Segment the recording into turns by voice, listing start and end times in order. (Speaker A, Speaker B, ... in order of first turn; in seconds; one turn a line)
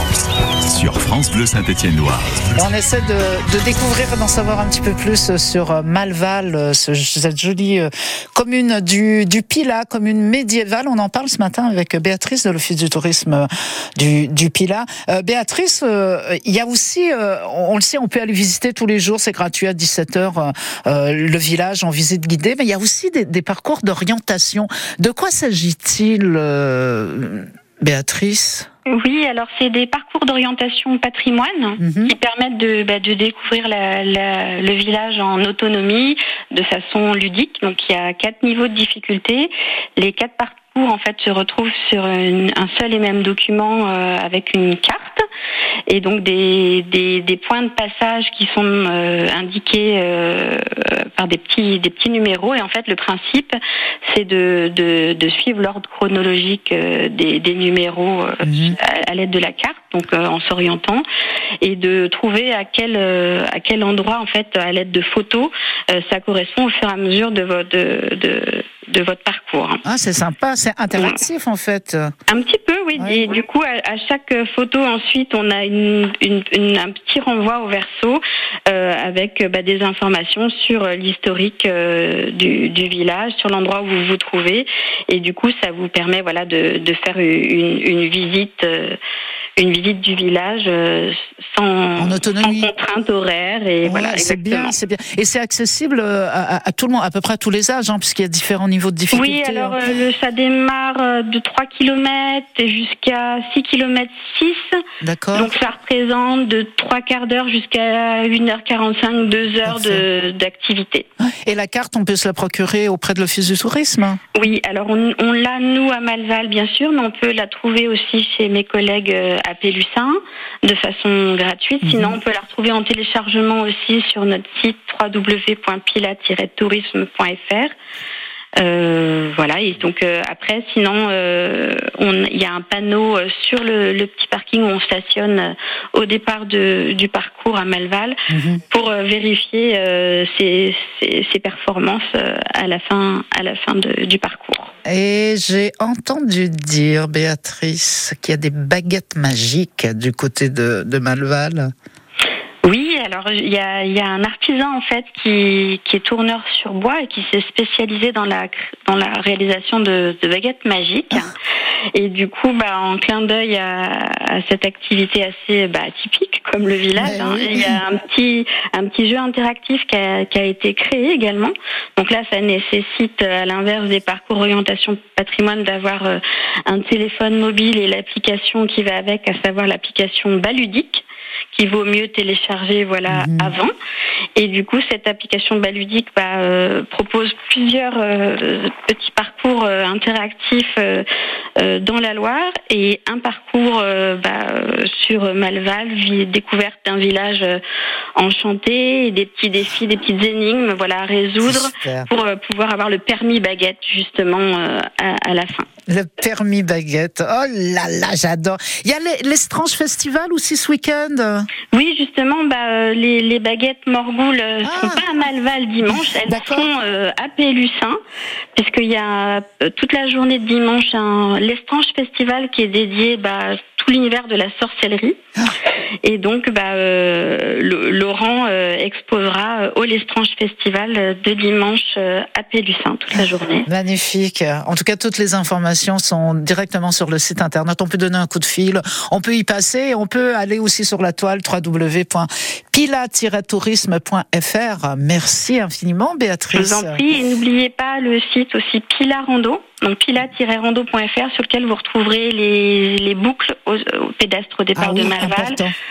Speaker A: 0.6-2.6
Speaker B: 2.6-28.7
Speaker C: 28.9-45.2
Speaker B: 31.8-32.1
Speaker C: 45.9-61.0
Speaker B: 58.4-58.8
Speaker C: 61.6-69.8
Speaker B: 69.8-72.1
Speaker C: 70.9-71.2
Speaker C: 72.3-89.0
Speaker B: 73.0-73.3
Speaker C: 89.6-94.7
Speaker B: 92.0-92.7
Speaker B: 93.8-99.9
Speaker C: 99.1-104.7
Speaker B: 105.0-105.5
Speaker C: 105.3-111.1
Speaker B: 109.7-110.0
Speaker B: 111.4-114.2
Speaker C: 114.3-127.7
Speaker B: 121.8-122.2
Speaker C: 128.6-138.2
Speaker B: 138.3-138.6
Speaker C: 138.7-144.7
Speaker B: 144.8-151.7
Speaker C: 152.6-161.3
Speaker C: 161.9-183.7
Speaker B: 167.0-167.8
Speaker B: 183.1-183.5
Speaker C: 184.3-191.1
Speaker C: 191.6-197.6
Speaker C: 198.2-205.7
Speaker B: 201.4-202.1
Speaker B: 205.9-211.5
Speaker C: 211.7-218.0
Speaker B: 214.6-215.1
Speaker B: 215.9-216.7
Speaker C: 218.5-225.2
Speaker C: 226.0-233.7
Speaker B: 233.7-247.0
Speaker C: 246.5-255.6
Speaker B: 254.8-255.7